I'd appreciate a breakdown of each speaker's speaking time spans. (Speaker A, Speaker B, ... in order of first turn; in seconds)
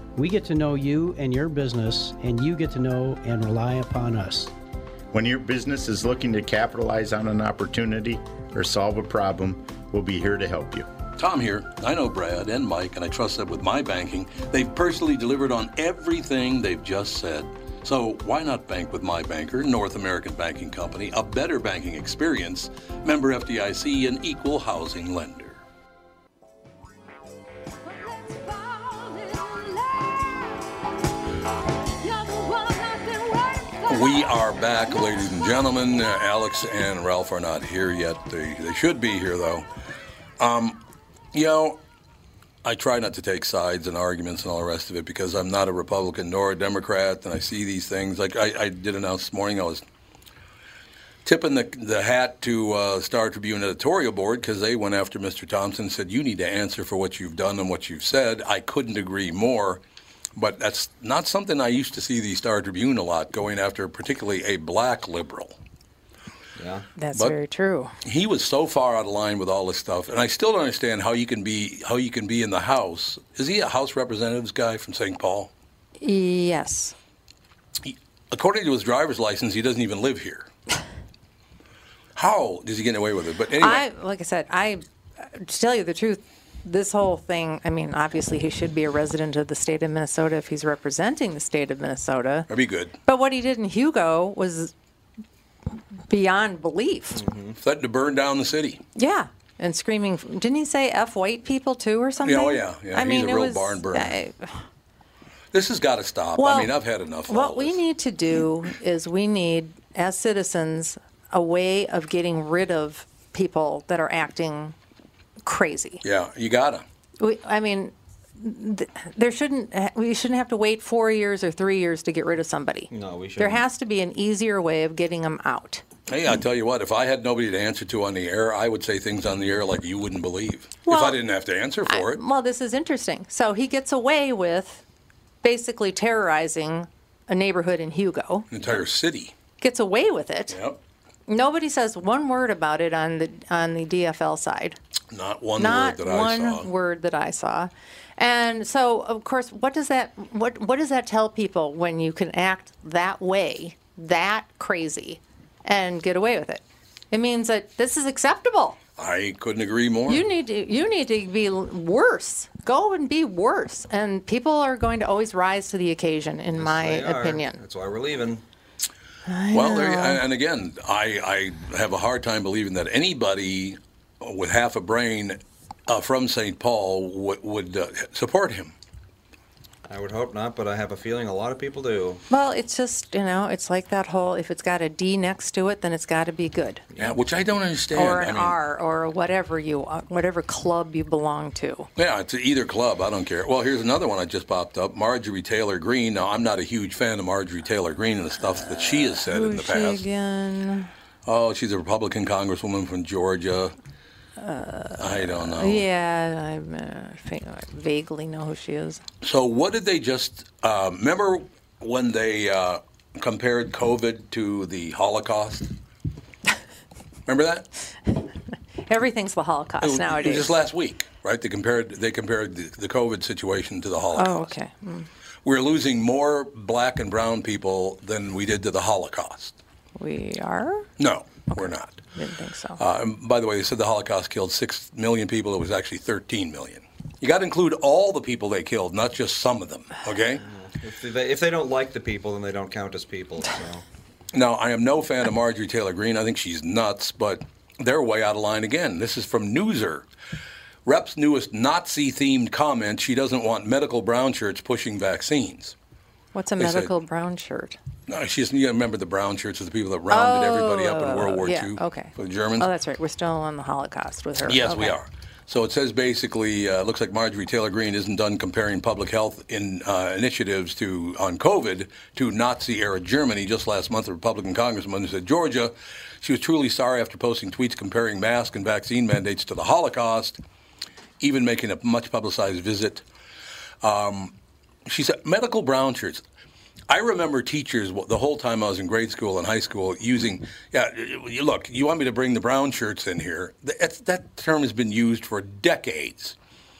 Speaker A: 0.1-4.5, 27.9-30.6, 32.0-34.1
Speaker B: 5.1-10.9
Speaker C: 11.2-25.6, 33.9-39.6, 40.4-40.8, 41.3-41.8, 42.6-49.8, 51.2-59.8, 60.4-65.5, 68.0-75.5, 77.8-80.5, 82.2-83.8, 92.5-92.9, 97.6-98.8, 102.2-104.2, 105.5-107.8, 116.0-116.8, 126.1-132.2, 138.5-139.3, 140.5-140.8, 145.1-146.7, 159.0-160.2, 169.5-178.7, 187.0-188.6, 191.9-200.0, 201.2-203.7, 205.0-205.8, 209.2-215.7, 217.3-217.7, 219.8-224.5, 225.4-229.6, 231.0-232.0, 232.8-240.4, 244.3-250.1, 250.8-255.7, 256.6-256.9, 258.1-262.7, 264.4-280.4, 281.2-283.1, 283.8-284.3, 284.9-286.2, 286.9-296.4
Speaker D: 66.6-66.9, 97.1-97.6, 122.9-123.6, 166.6-168.4, 179.9-182.2, 240.4-243.8
Speaker E: 67.0-67.9, 76.0-76.9, 83.6-92.5, 93.0-94.7, 96.1-97.2, 99.0-104.6, 106.4-106.7, 107.3-114.7, 115.4-116.0, 117.2-125.8, 130.8-131.2, 131.8-134.8, 135.4-138.5, 139.6-140.6, 141.3-144.8, 145.6-158.8, 160.1-167.6, 169.2-170.2, 182.3-186.8, 187.9-191.9, 199.0-200.9, 204.4-209.0, 218.9-220.5, 224.1-225.1, 230.0-230.9, 231.5-232.8, 256.3-257.8, 260.1-264.9